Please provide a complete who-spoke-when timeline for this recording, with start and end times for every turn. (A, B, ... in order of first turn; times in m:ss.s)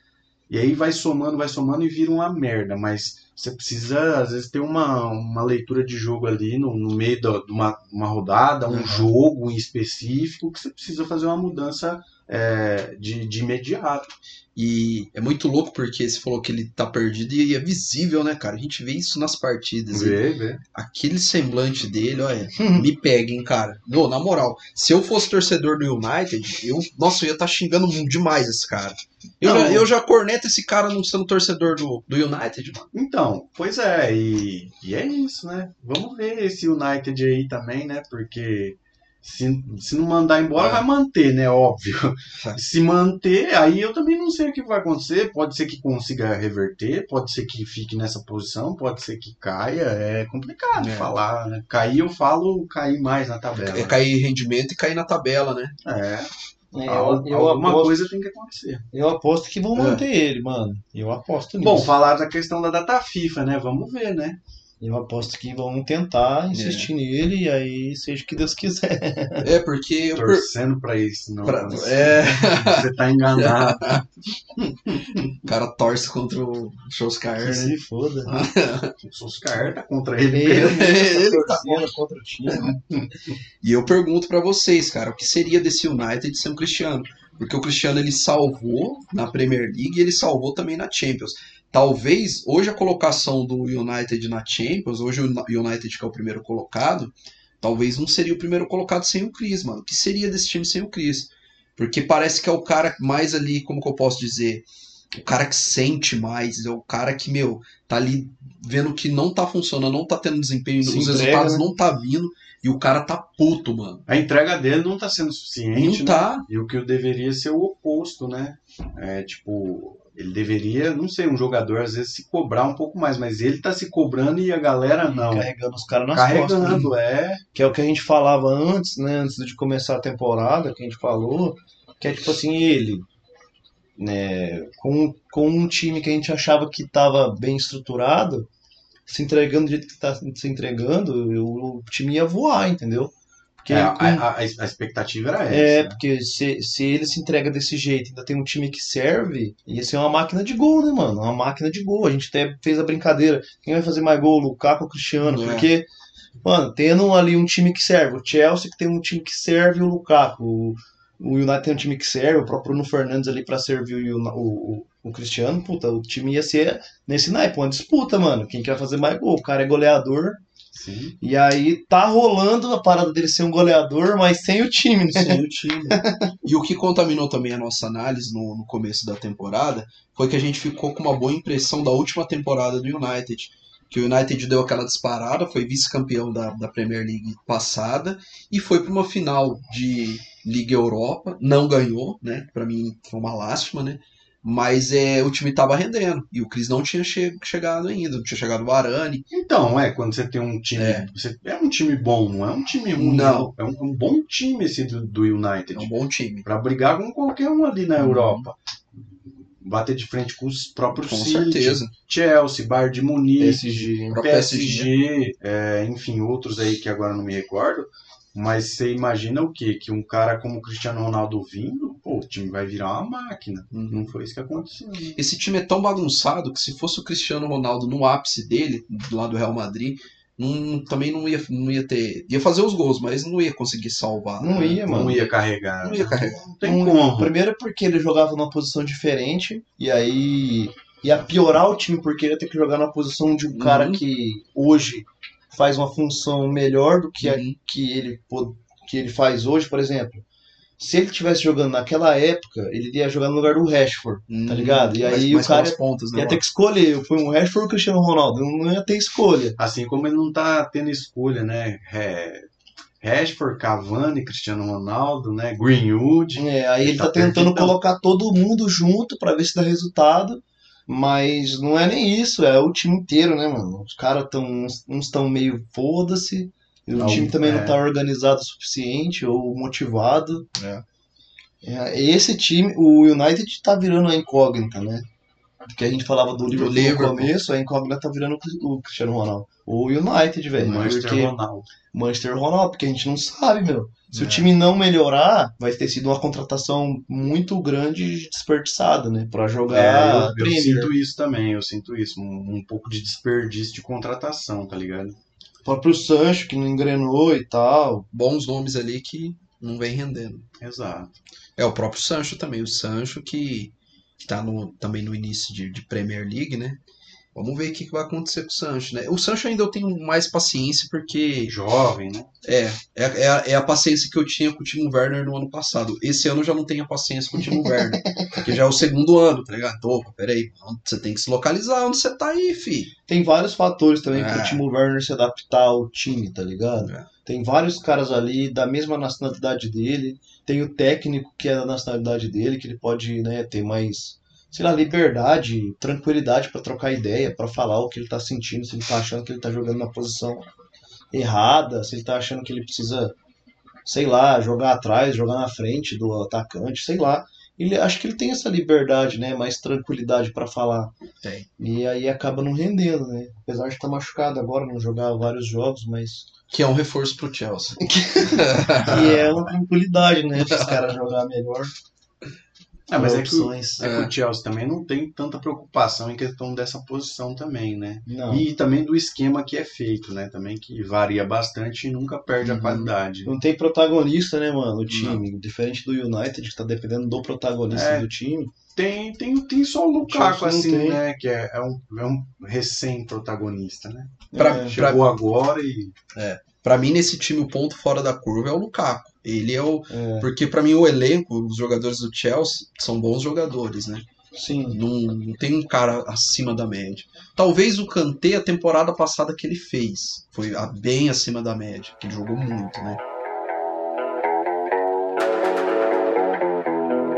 0:00.5-0:14.1 A
0:08.7-0:09.1 B
0:14.6-0:20.2 B
0:19.9-0:20.6 A
0:20.7-0:32.9 B
0:22.6-0:22.9 C
0:29.4-0:29.9 A
0:32.9-0:54.0 A
0:40.6-0:40.8 B
0:50.8-0:51.1 B
0:53.6-0:55.7 B
0:55.8-0:56.3 A
0:56.7-0:58.1 C
0:56.9-0:58.8 A
0:58.9-1:01.9 C
0:59.8-1:00.0 B
1:01.6-1:04.4 A
1:04.8-1:09.5 C
1:06.5-1:06.9 B
1:09.4-1:10.5 B
1:10.1-1:14.0 A
1:11.4-1:14.0 B
1:14.6-1:15.3 A
1:15.4-1:17.8 B
1:17.4-1:18.4 C
1:18.3-1:18.9 B
1:19.0-1:20.9 A
1:20.3-1:22.8 C
1:20.5-1:21.9 B
1:23.6-1:54.0 B
1:50.8-1:51.7 C
1:54.1-2:05.5 A
1:55.7-1:56.4 B
2:05.1-2:06.9 C
2:06.1-2:07.4 A
2:07.5-2:13.1 C
2:14.0-2:18.5 C
2:19.1-2:24.2 C
2:23.7-2:26.0 A
2:25.5-2:35.9 C
2:35.2-2:35.7 B
2:36.4-2:50.4 C
2:50.7-2:51.2 A
2:51.2-2:56.3 C
2:55.1-3:19.2 B
3:19.3-3:25.9 A
3:20.8-3:21.1 B
3:23.0-3:23.5 B
3:25.7-3:26.5 B
3:26.4-3:45.2 A
3:28.0-3:28.5 B
3:30.9-3:31.9 B
3:33.4-3:34.2 C
3:33.5-3:34.9 B
3:43.7-3:44.1 B
3:45.2-3:54.8 B
3:54.4-3:55.2 C
3:54.9-3:57.3 A
3:55.8-3:56.4 B
3:56.6-4:10.2 C
4:03.5-4:04.0 B
4:07.2-4:07.6 B
4:10.8-4:19.6 C
4:14.3-4:16.4 B
4:19.6-4:22.5 A
4:23.0-4:27.8 A
4:26.4-4:40.5 C
4:37.0-4:37.8 A
4:40.6-4:40.8 B
4:41.6-4:45.1 C
4:45.7-4:51.3 C
4:46.5-4:47.3 B
4:50.6-4:51.7 A
4:51.9-5:00.9 C
4:54.1-4:54.5 B
4:59.7-5:05.2 A
5:05.6-5:08.1 C
5:08.1-5:10.4 B
5:10.6-5:11.2 A
5:11.6-5:16.8 B
5:17.3-5:21.5 B
5:21.5-5:22.3 A
5:22.4-5:32.9 B
5:27.9-5:28.4 C
5:33.1-5:50.5 C
5:34.1-5:34.6 B
5:36.8-5:37.1 B
5:51.1-5:53.2 C
5:53.8-6:00.9 C
6:01.2-6:01.5 B
6:01.6-6:06.2 C
6:06.5-6:09.2 B
6:07.8-6:11.7 C
6:08.9-6:09.3 A
6:10.4-6:10.8 B
6:12.9-6:23.3 A
6:13.0-6:13.9 C
6:13.8-6:14.1 B
6:18.1-6:18.4 C
6:22.4-6:22.9 B
6:23.2-6:28.5 C
6:24.9-6:25.2 B
6:27.7-6:28.1 A
6:28.8-6:35.9 A
6:30.0-6:31.0 C
6:34.3-6:34.8 C
6:34.4-6:35.0 B
6:36.1-6:44.1 B
6:39.9-6:40.3 C
6:44.3-6:44.8 C
6:44.7-6:53.0 B